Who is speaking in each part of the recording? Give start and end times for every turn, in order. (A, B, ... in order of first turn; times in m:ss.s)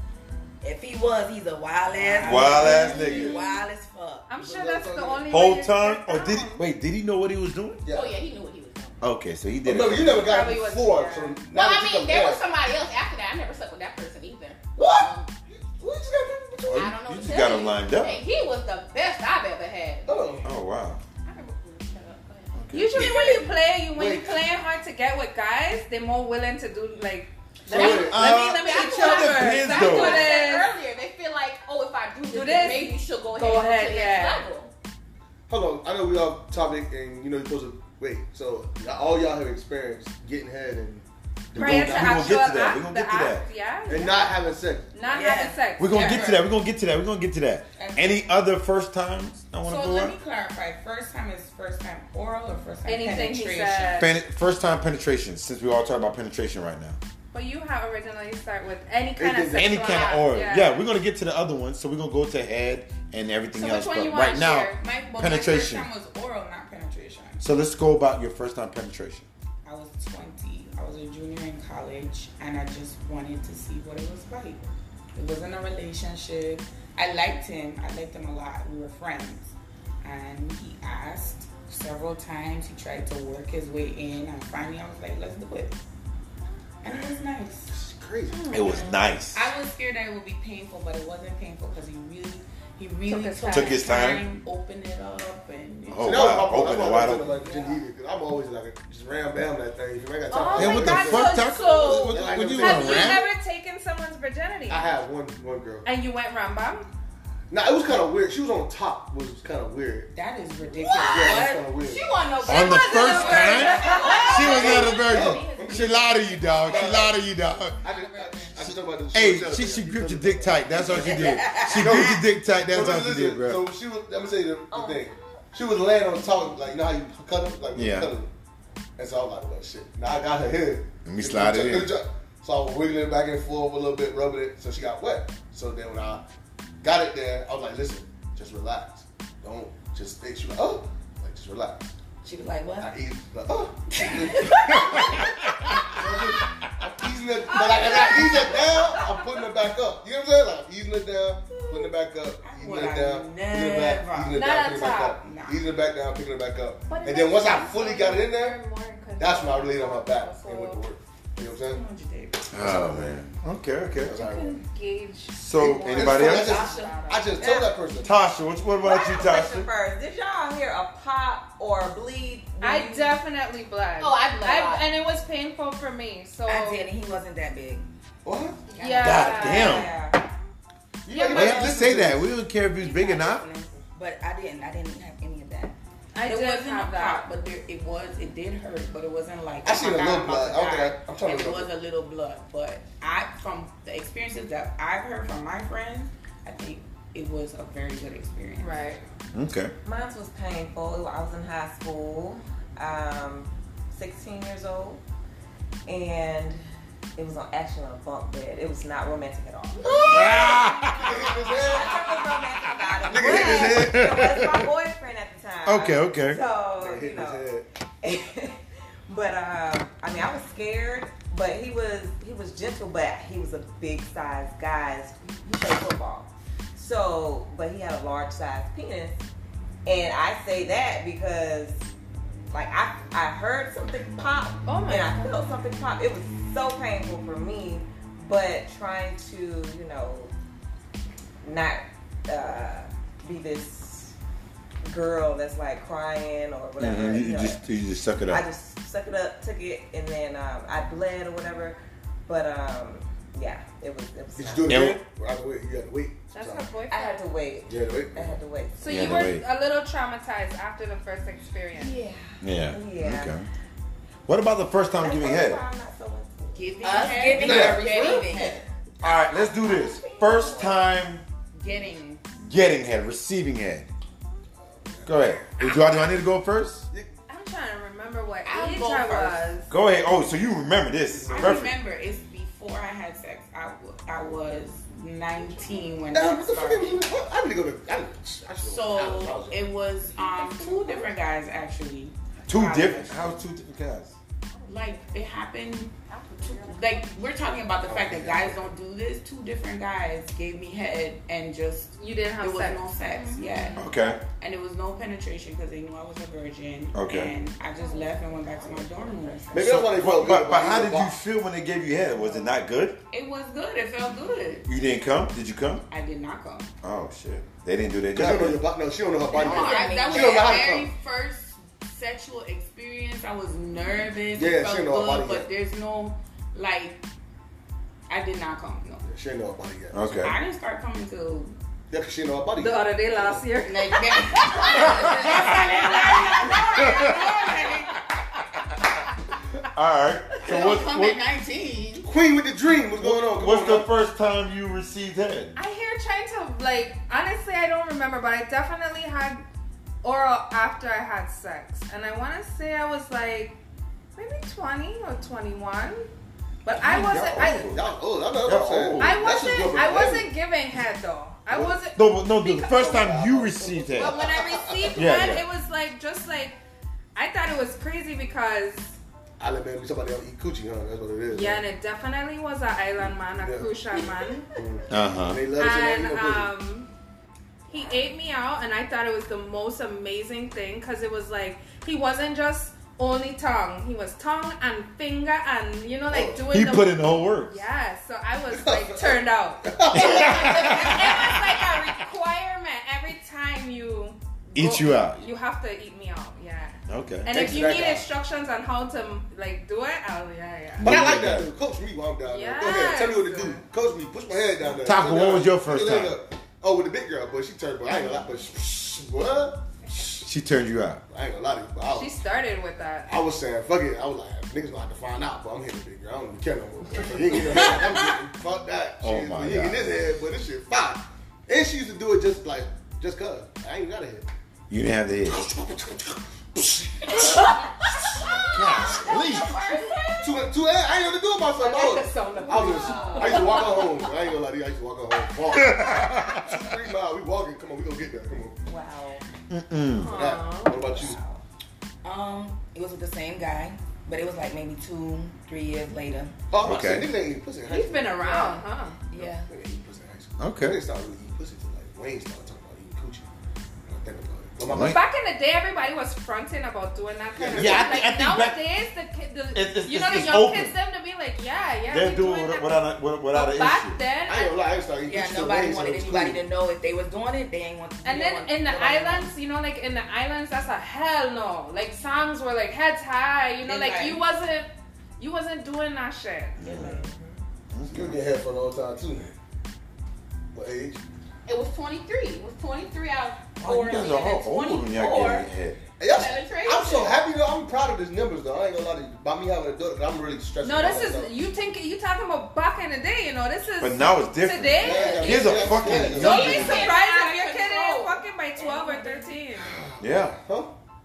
0:00.6-0:04.3 A
0:01.9-0:03.2 B
0:02.2-0:03.4 C
0:02.2-0:03.6 D
0:04.3-0:06.6 D
0:04.4-0:05.4 E
0:05.3-0:07.8 C
0:07.8-0:08.2 E
0:07.9-0:09.0 F
0:09.0-0:10.4 C
0:09.6-0:12.4 E
0:10.2-0:11.4 D
0:11.5-0:15.3 F
0:14.8-0:16.9 E
0:16.7-0:18.2 C
0:16.7-0:20.4 F
0:20.1-0:20.5 E
0:20.4-0:21.0 C
0:21.2-0:22.6 F
0:22.6-0:23.2 C
0:22.7-0:30.7 D
0:23.9-0:24.5 E
0:27.6-0:28.2 E
0:27.7-0:34.7 F
0:27.7-0:30.4 C
0:32.3-0:34.5 D
0:35.5-0:42.4 E
0:41.6-0:44.4 D
0:41.6-0:43.4 C
0:43.9-0:45.0 E
0:44.9-0:46.3 D
0:45.0-0:45.7 A
0:45.8-0:50.2 C
0:45.8-0:46.5 B
0:47.8-0:48.2 B
0:49.6-0:54.1 B
0:52.9-0:54.2 D
0:54.0-0:57.0 C
0:57.3-1:00.9 D
0:59.2-1:00.2 E
0:59.5-1:05.9 C
1:03.6-1:04.8 D
1:04.8-1:07.4 B
1:07.4-1:09.3 C
1:09.6-1:25.8 B
1:26.8-1:27.7 B
1:26.9-1:27.2 E
1:27.7-1:28.8 E
1:28.3-1:29.0 D
1:28.5-1:29.5 C
1:29.3-1:37.8 B
1:33.1-1:33.8 D
1:33.5-1:34.2 C
1:35.9-1:37.4 C
1:36.0-1:43.3 E
1:40.3-1:44.9 D
1:40.6-1:43.3 C
1:44.7-1:45.9 E
1:45.8-1:46.9 D
1:47.5-1:50.1 E
1:50.1-1:51.7 B
1:51.0-1:55.7 A
1:51.0-1:52.1 E
1:52.4-1:54.8 D
1:52.5-1:57.8 C
1:52.7-1:54.2 F
1:53.4-1:55.0 B
1:54.0-1:57.2 E
1:55.9-1:57.1 B
1:57.8-1:58.7 B
1:57.8-2:08.3 E
1:58.6-2:03.7 C
2:00.9-2:02.2 A
2:04.7-2:05.2 G
2:07.8-2:08.1 C
2:09.0-2:16.2 E
2:11.0-2:11.9 C
2:16.8-2:21.9 E
2:22.2-2:23.0 A
2:22.8-2:25.3 E
2:23.9-2:25.3 A
2:24.8-2:26.0 C
2:25.8-2:38.6 E
2:27.5-2:29.0 D
2:32.4-2:34.4 B
2:34.3-2:35.2 D
2:35.2-2:35.6 B
2:36.9-2:40.8 D
2:39.2-2:41.8 E
2:41.4-2:43.1 B
2:42.5-2:44.2 C
2:42.6-2:43.2 E
2:44.0-2:44.6 E
2:44.2-2:47.6 D
2:45.3-2:46.6 C
2:45.8-2:48.2 E
2:46.4-2:47.0 B
2:48.0-2:49.7 C
2:48.8-2:53.2 G
2:52.6-2:56.9 D
2:54.0-2:54.9 F
2:56.5-2:57.9 A
2:58.2-2:58.7 E
2:58.8-2:59.8 D
2:58.8-2:59.3 A
2:59.0-3:00.2 G
2:59.0-2:59.9 C
3:01.1-3:02.4 E
3:01.1-3:01.4 D
3:01.3-3:01.7 A
3:01.3-3:03.4 C
3:02.8-3:05.8 A
3:06.1-3:07.2 D
3:06.3-3:18.9 B
3:09.6-3:11.7 E
3:18.6-3:19.0 D
3:19.3-3:19.7 C
3:19.8-3:25.0 G
3:25.9-3:26.6 G
3:27.2-3:30.4 G
3:29.8-3:32.1 E
3:30.0-3:31.3 C
3:31.4-3:37.5 G
3:33.1-3:34.2 E
3:33.2-3:34.7 C
3:33.3-3:33.6 D
3:35.6-3:36.4 C
3:36.8-3:37.7 E
3:38.0-3:49.3 G
3:49.8-3:51.9 G
3:52.5-4:00.3 G
3:54.6-3:55.4 D
4:01.4-4:04.2 G
4:04.9-4:07.7 G
4:06.8-4:08.4 C
4:08.3-4:14.8 G
4:14.4-4:16.7 E
4:14.7-4:15.0 C
4:16.3-4:17.2 D
4:16.8-4:19.2 G
4:17.7-4:18.4 E
4:18.8-4:22.0 D
4:18.9-4:19.4 C
4:21.7-4:23.4 G
4:22.4-4:23.5 C
4:24.3-4:25.6 C
4:25.0-4:26.8 G
4:26.5-4:28.6 B
4:26.8-4:28.6 A
4:27.3-4:28.0 E
4:29.0-4:31.2 C
4:29.0-4:30.9 G
4:31.5-4:32.2 B
4:32.4-4:33.9 C
4:34.6-4:35.6 E
4:35.0-4:36.9 C
4:37.3-4:39.7 D
4:38.4-4:39.6 B
4:39.7-4:41.8 C
4:41.2-4:41.6 E
4:41.3-4:47.0 B
4:46.1-4:51.1 E
4:48.6-4:53.4 B
4:52.5-4:54.2 C
4:54.6-5:10.0 B
4:57.9-4:58.7 E
5:02.0-5:02.9 D
5:03.2-5:03.5 A
5:03.8-5:04.2 C
5:06.9-5:07.3 C
5:07.8-5:09.5 A
5:09.5-5:11.1 E
5:09.6-5:13.0 C
5:13.1-5:14.7 B
5:14.7-5:15.8 C
5:15.9-5:16.7 B
5:16.8-5:18.6 C
5:18.1-5:20.9 E
5:19.3-5:20.6 A
5:19.3-5:27.0 B
5:24.3-5:25.5 E
5:28.1-5:29.1 B
5:29.1-5:30.2 E
5:29.9-5:30.4 C
5:30.2-5:31.6 B
5:31.9-5:33.4 E
5:32.6-5:36.6 D
5:33.6-5:38.1 B
5:34.7-5:35.6 C
5:36.8-5:37.2 C
5:39.7-5:41.2 C
5:40.4-5:42.1 B
5:42.0-5:43.9 E
5:43.0-5:45.5 C
5:45.6-5:49.4 D
5:50.0-5:53.6 D
5:54.2-5:56.1 D
5:56.6-5:57.8 D
5:56.7-6:00.3 E
5:56.9-5:57.7 C
5:58.4-5:59.4 C
5:59.0-6:03.0 D
6:01.5-6:01.8 E
6:02.0-6:04.2 C
6:02.7-6:05.4 E
6:03.9-6:06.6 D
6:05.0-6:05.4 C
6:07.2-6:09.0 D
6:09.4-6:11.6 E
6:11.3-6:14.5 D
6:13.0-6:13.7 E
6:14.6-6:16.5 E
6:14.9-6:15.4 C
6:15.5-6:16.9 D
6:17.7-6:40.9 D
6:26.1-6:26.5 E
6:26.5-6:27.6 C
6:28.5-6:31.3 E
6:29.9-6:31.7 C
6:34.6-6:35.3 C
6:36.9-6:37.4 C
6:37.3-6:38.1 E
6:40.8-6:41.5 C
6:40.8-6:50.2 E
6:42.2-6:43.6 D
6:44.8-6:46.2 C
6:50.2-6:51.0 C
6:51.1-6:52.2 E
6:51.9-6:53.1 D
6:53.1-7:04.3 E
6:59.0-7:00.0 C
7:04.7-7:05.5 C
7:05.3-7:07.6 E
7:08.5-7:09.5 C
7:08.9-7:09.9 G
7:10.2-7:18.6 E
7:11.6-7:13.8 D
7:12.2-7:13.9 G
7:15.5-7:16.6 C
7:18.7-7:19.2 G
7:19.5-7:20.2 C
7:20.0-7:20.9 D
7:20.0-7:21.2 E
7:20.8-7:21.4 G
7:22.0-7:26.4 A
7:26.5-7:33.3 E
7:26.6-7:27.1 C
7:27.7-7:29.0 D
7:29.1-7:29.5 A
7:30.4-7:30.8 C
7:33.9-7:35.0 E
7:34.7-7:35.0 C
7:34.8-7:42.8 D
7:37.3-7:38.1 E
7:37.5-7:38.6 C
7:39.5-7:40.7 C
7:41.9-7:44.0 C
7:43.3-7:44.6 D
7:44.2-7:46.4 E
7:45.0-7:49.3 A
7:48.0-7:56.8 D
7:53.6-7:54.3 B
7:56.6-7:57.0 C
7:56.7-7:57.0 B
7:57.7-7:58.2 C
7:57.9-7:59.3 E
8:00.5-8:01.0 E
8:01.5-8:05.5 F
8:03.6-8:05.8 C
8:06.0-8:11.3 E
8:06.1-8:07.2 F
8:10.6-8:19.8 D
8:13.8-8:17.0 C
8:14.8-8:16.9 E
8:16.0-8:19.3 F
8:19.6-8:20.8 E
8:20.0-8:20.4 C